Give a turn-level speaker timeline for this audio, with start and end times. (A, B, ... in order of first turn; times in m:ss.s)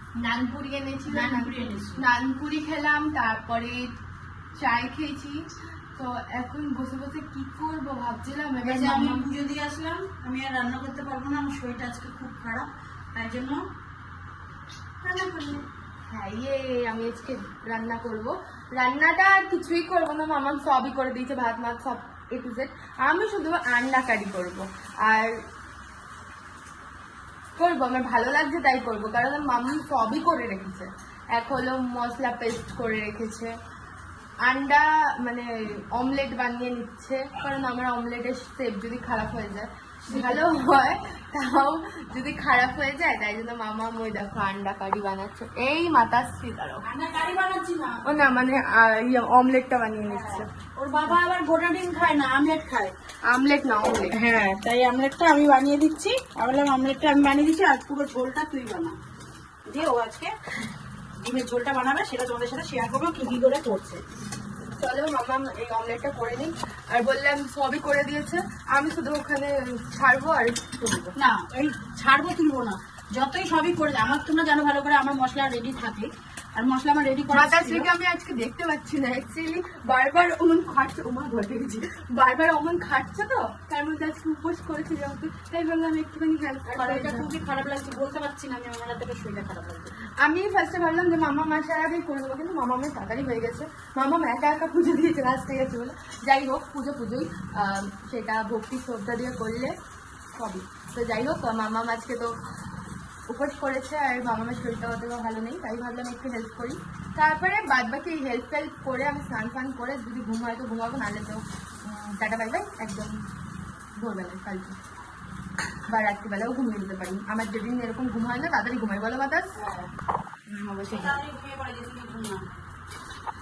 0:00.2-0:03.9 A
0:01.1-0:02.0 B
0:04.6-0:09.3 A
0:08.6-0:13.6 B
0:15.0-0:15.6 B
0:16.1-0:25.4 A
0:27.6-0:33.5 A
0:34.4-0:46.8 A
0:40.1-0:40.5 B
0:46.8-0:48.0 B
0:48.0-0:50.5 A
0:50.1-0:52.9 B
0:53.3-0:54.2 A
0:54.1-0:59.0 B
0:59.7-1:00.3 B
1:01.2-1:04.0 B
1:04.8-1:11.1 A
1:11.2-1:17.9 B
1:17.3-1:27.3 A
1:26.7-1:30.0 B
1:30.2-1:39.8 A
1:40.3-1:42.4 A
1:43.3-1:53.2 A
1:54.0-1:54.8 A
1:55.9-1:59.6 A
1:59.6-1:59.9 B
2:00.5-2:01.2 A
2:00.9-2:02.5 B